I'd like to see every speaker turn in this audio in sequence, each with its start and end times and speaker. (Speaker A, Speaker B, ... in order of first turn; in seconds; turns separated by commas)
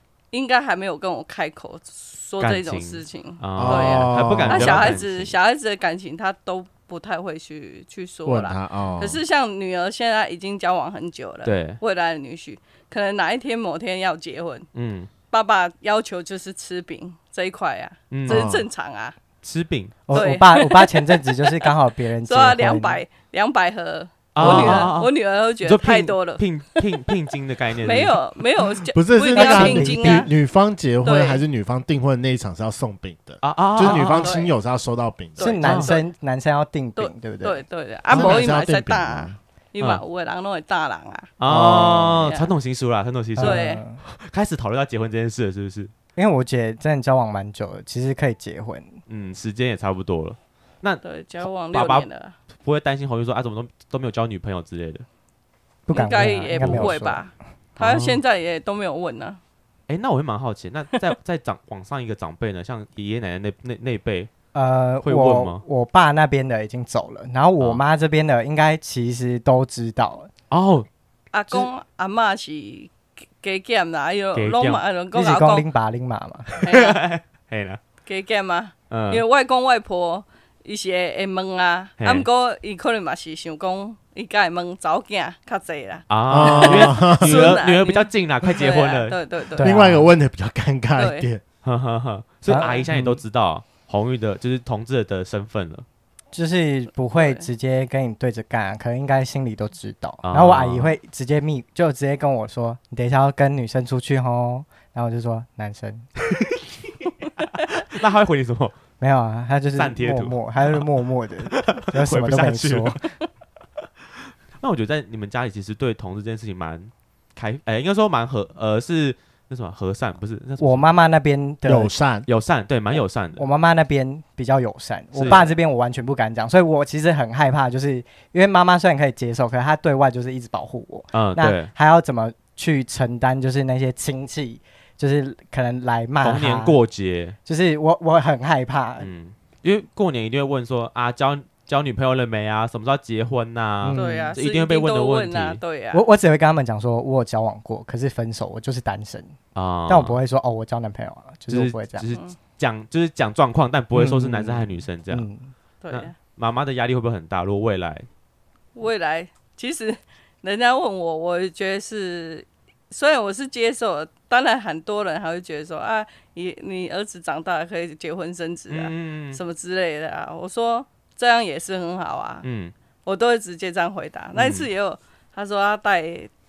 Speaker A: 0.3-14.7, Speaker B: 2.4-5.3, Speaker C: 3.5-5.0, Speaker C: 8.2-9.2, Speaker B: 11.4-11.8, Speaker B: 14.7-15.1, Speaker A: 15.3-19.1, Speaker B: 18.1-18.5, Speaker C: 18.3-18.7, Speaker B: 19.4-20.1, Speaker D: 20.1-23.0, Speaker A: 20.1-21.6, Speaker A: 22.2-26.4, Speaker B: 24.3-28.2, Speaker D: 24.4-24.9, Speaker A: 27.8-30.3, Speaker C: 28.9-35.6, Speaker D: 29.3-30.3, Speaker A: 31.0-31.4, Speaker B: 33.4-34.3, Speaker A: 33.9-34.5, Speaker A: 35.4-36.0, Speaker D: 35.4-37.6, Speaker B: 35.6-35.9, Speaker A: 37.0-41.3, Speaker C: 38.1-39.4, Speaker B: 41.4-45.9, Speaker D: 41.5-42.2, Speaker A: 42.1-42.5, Speaker D: 43.4-44.0, Speaker A: 43.4-43.8, Speaker D: 46.1-49.0, Speaker B: 49.1-55.0, Speaker A: 51.0-52.4, Speaker D: 55.9-57.2, Speaker A: 55.9-59.4, Speaker B: 56.5-56.9, Speaker B: 57.8-58.2, Speaker B: 59.9-64.3, Speaker D: 64.5-70.3, Speaker B: 65.0-65.6, Speaker B: 70.5-70.9, Speaker A: 71.3-75.7, Speaker B: 74.3-74.8, Speaker D: 75.1-76.5, Speaker B: 76.6-77.8, Speaker A: 76.6-77.0, Speaker A: 78.0-89.8, Speaker B: 78.9-79.2, Speaker B: 82.0-82.2, Speaker B: 86.1-89.2, Speaker C: 86.3-87.6, Speaker D: 89.5-90.1, Speaker C: 89.6-91.4, Speaker A: 91.0-91.3, Speaker B: 91.6-95.8, Speaker D: 92.5-93.2, Speaker D: 96.3-106.1, Speaker A: 97.1-97.5, Speaker B: 100.2-100.9, Speaker B: 107.4-108.8, Speaker D: 109.0-113.1, Speaker B: 109.7-110.8, Speaker B: 111.4-113.0, Speaker B: 114.6-121.0, Speaker D: 120.6-121.9, Speaker C: 121.6-122.3, Speaker B: 122.3-123.4, Speaker D: 123.4-136.8, Speaker B: 125.1-125.5, Speaker B: 131.1-131.7, Speaker B: 136.2-137.3, Speaker D: 137.4-139.1, Speaker B: 139.0-145.6, Speaker D: 143.8-144.3, Speaker A: 143.9-146.0, Speaker D: 145.9-149.4, Speaker B: 149.5-150.2, Speaker D: 149.9-152.1, Speaker B: 151.5-155.3, Speaker A: 152.1-152.3, Speaker D: 153.9-155.5, Speaker A: 155.8-156.1, Speaker B: 155.9-158.1, Speaker A: 158.8-172.4, Speaker B: 168.7-169.4, Speaker B: 172.4-172.7, Speaker A: 173.0-176.3, Speaker B: 174.3-174.7